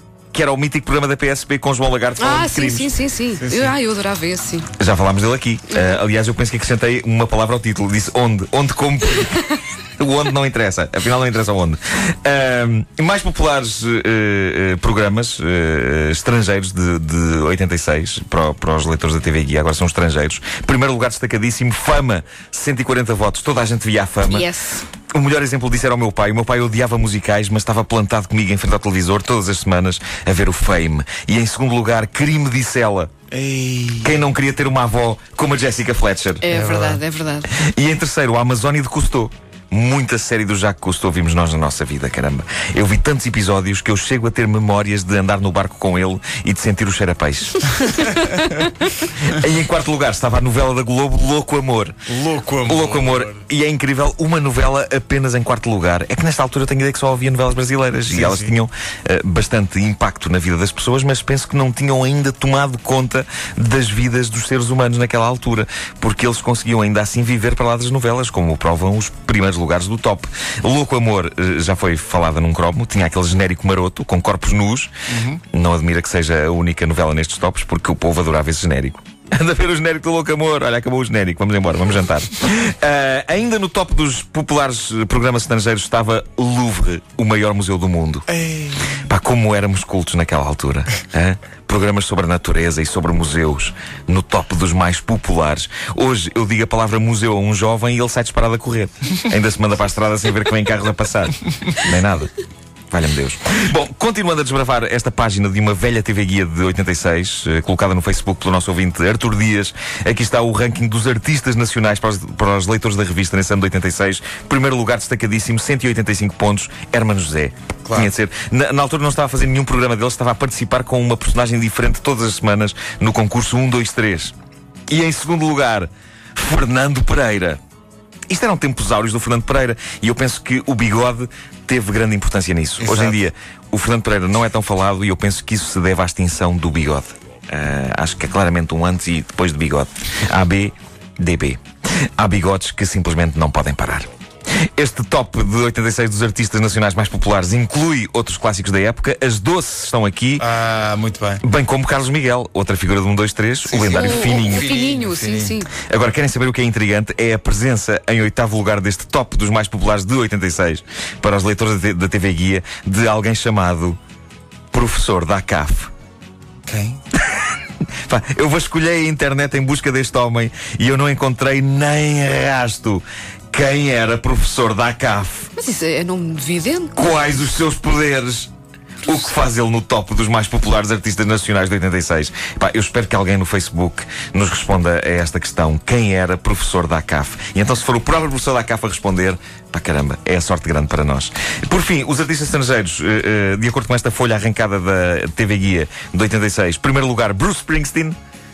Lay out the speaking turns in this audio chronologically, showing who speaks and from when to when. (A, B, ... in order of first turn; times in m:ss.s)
0:00.3-0:02.9 A
0:02.2-0:04.7 B
0:03.4-0:03.8 C
0:04.8-0:24.5 A
0:24.2-0:24.8 B
0:25.1-0:33.1 A
0:33.3-0:34.2 C
0:34.0-0:36.4 A
0:36.4-0:37.5 B
0:36.5-0:37.0 C
0:37.5-0:51.9 A
0:52.1-0:53.4 C
0:52.6-1:14.9 A
0:58.1-0:58.6 C
1:15.1-1:15.4 C
1:15.5-1:28.3 A
1:28.3-1:29.0 C
1:28.9-1:42.3 A
1:42.9-2:04.3 A
1:57.8-1:58.1 C
2:04.9-2:07.6 A
2:08.3-2:21.6 A
2:12.8-2:13.2 C
2:22.2-2:24.1 A
2:24.8-2:30.4 A
2:30.4-2:31.4 C
2:31.4-2:34.7 A
2:33.7-2:35.6 C
2:33.9-2:35.7 B
2:35.7-2:44.0 A
2:44.7-2:45.9 A
2:46.6-2:47.0 C
2:47.1-2:55.5 A
2:55.6-2:57.2 B
2:57.0-2:58.5 A
2:59.0-3:18.2 A